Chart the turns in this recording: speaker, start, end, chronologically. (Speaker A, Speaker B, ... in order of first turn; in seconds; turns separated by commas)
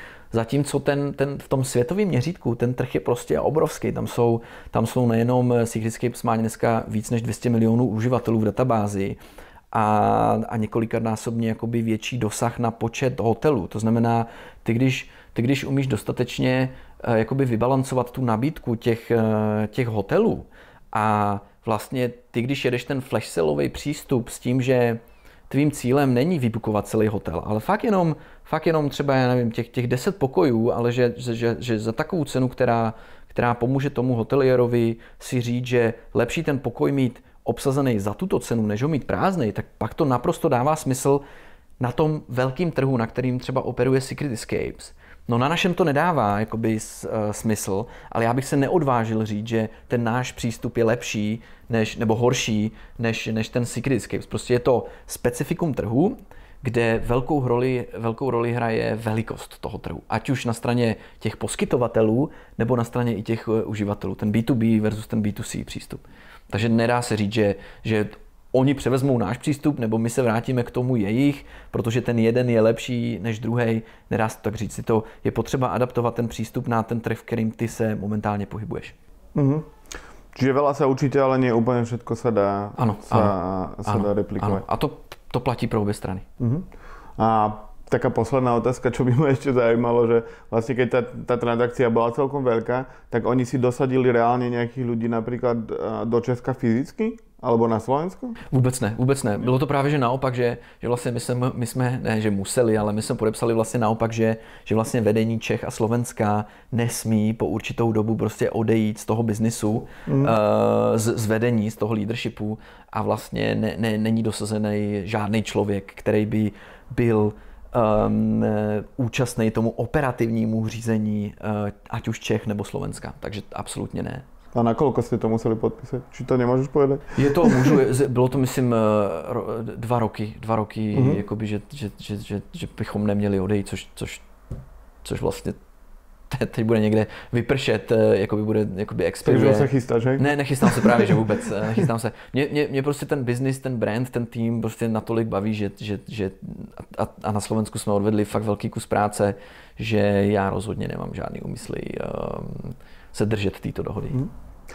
Speaker A: 0.3-9.2, Speaker A: 9.7-41.2, Speaker A: 41.8-78.9, Speaker B: 79.3-79.7, Speaker B: 80.3-84.6, Speaker A: 82.8-86.2, Speaker B: 86.4-86.7, Speaker B: 87.2-98.4, Speaker A: 98.5-124.2, Speaker B: 110.0-110.3, Speaker B: 124.5-127.8, Speaker A: 127.1-134.2, Speaker B: 130.9-131.2, Speaker A: 135.0-135.6, Speaker A: 136.3-154.2, Speaker B: 139.2-141.2